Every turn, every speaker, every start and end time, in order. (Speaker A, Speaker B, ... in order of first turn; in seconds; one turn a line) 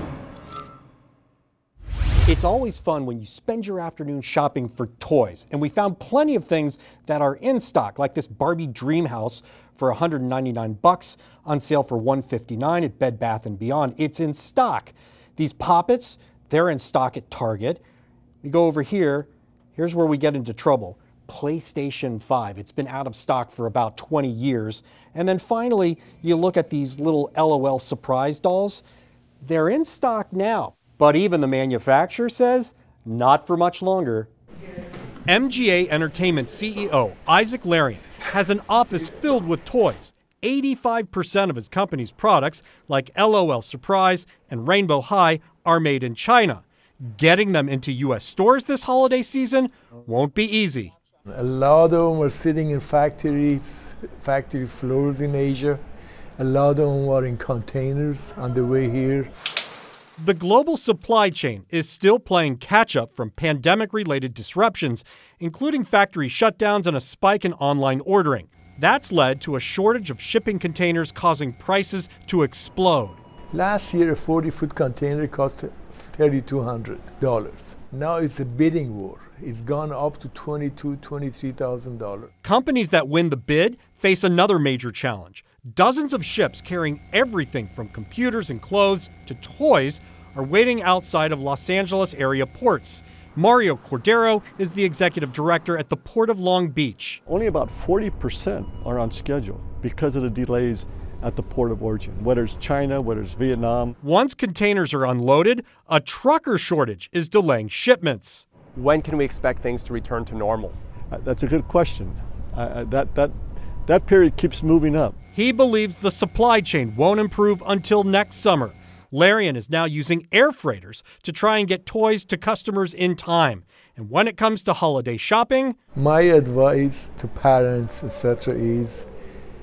Speaker A: 2.3-17.8
Speaker A: 18.4-28.8
Speaker A: 29.4-34.3
Speaker A: 35.3-50.9
Speaker B: 51.3-55.8
Speaker B: 56.4-59.3
Speaker A: 60.2-73.2
Speaker B: 73.5-82.3
Speaker A: 82.4-97.2
Speaker C: 97.3-104.0
Speaker A: 104.0-108.5
Speaker D: 108.8-110.8
Speaker C: 111.1-113.3
Speaker C: 113.9-115.2
Speaker A: 115.3-125.8
Speaker B: 126.0-129.1